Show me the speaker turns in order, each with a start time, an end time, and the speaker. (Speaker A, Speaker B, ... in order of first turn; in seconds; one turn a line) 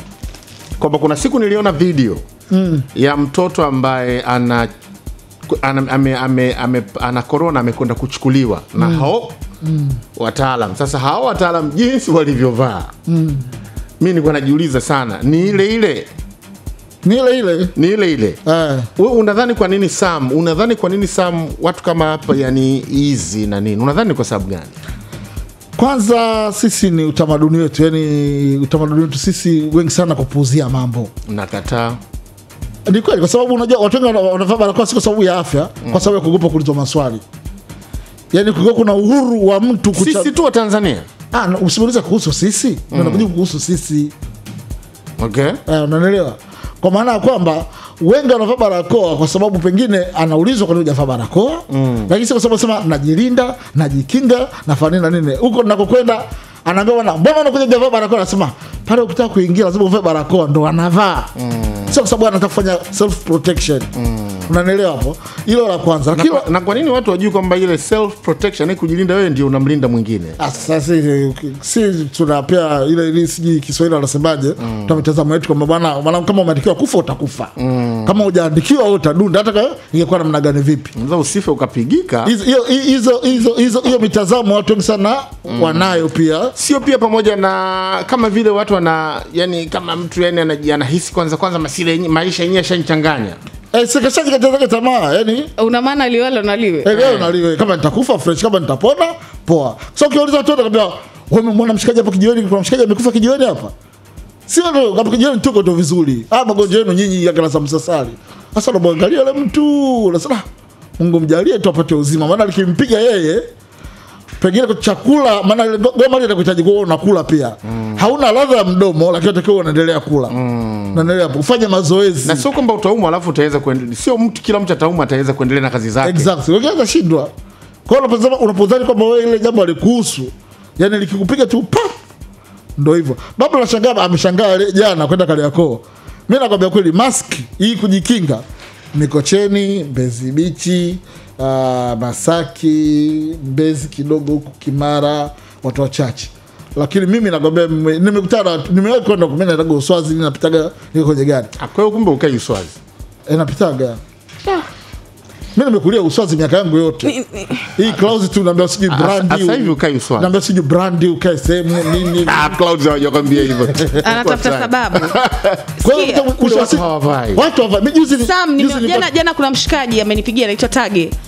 Speaker A: 0.8-2.2
Speaker B: 2.5-2.9
Speaker A: 2.9-4.7
Speaker A: 5.5-9.3
Speaker B: 8.8-9.1
Speaker B: 9.6-10.0
Speaker A: 10.2-12.9
Speaker B: 13.1-13.4
Speaker A: 14.0-16.1
Speaker B: 17.0-17.7
Speaker A: 17.8-18.4
Speaker B: 18.5-18.9
Speaker A: 19.0-24.8
Speaker B: 25.8-31.1
Speaker A: 31.3-32.0
Speaker B: 32.9-37.2
Speaker B: 38.3-40.3
Speaker A: 39.9-41.1
Speaker B: 41.3-44.1
Speaker A: 42.9-43.3
Speaker A: 45.2-45.6
Speaker B: 45.7-61.3
Speaker A: 51.7-52.1
Speaker A: 61.4-61.9
Speaker B: 61.9-63.9
Speaker A: 64.0-64.4
Speaker B: 64.5-66.5
Speaker A: 66.2-70.4
Speaker B: 70.4-77.5
Speaker A: 74.6-74.9
Speaker A: 77.6-78.1
Speaker B: 78.0-80.9
Speaker A: 81.0-82.3
Speaker B: 82.2-86.5
Speaker A: 85.5-86.0
Speaker A: 86.5-93.4
Speaker B: 93.7-95.5
Speaker C: 95.6-96.9
Speaker B: 96.8-103.7
Speaker A: 96.9-97.3
Speaker B: 104.5-110.5
Speaker B: 111.0-113.5
Speaker B: 114.4-120.4
Speaker A: 120.3-121.0
Speaker B: 120.9-122.5
Speaker A: 122.2-126.3
Speaker B: 126.0-127.3
Speaker B: 127.9-131.9
Speaker B: 132.8-151.5
Speaker A: 151.6-152.8
Speaker B: 153.3-154.0
Speaker B: 155.6-157.2
Speaker C: 157.0-157.7
Speaker B: 157.8-162.5
Speaker A: 158.9-160.3
Speaker A: 162.2-165.8
Speaker B: 163.7-164.1
Speaker C: 164.0-165.1
Speaker B: 165.8-169.1
Speaker C: 165.8-166.6
Speaker A: 166.4-167.4
Speaker C: 168.2-171.2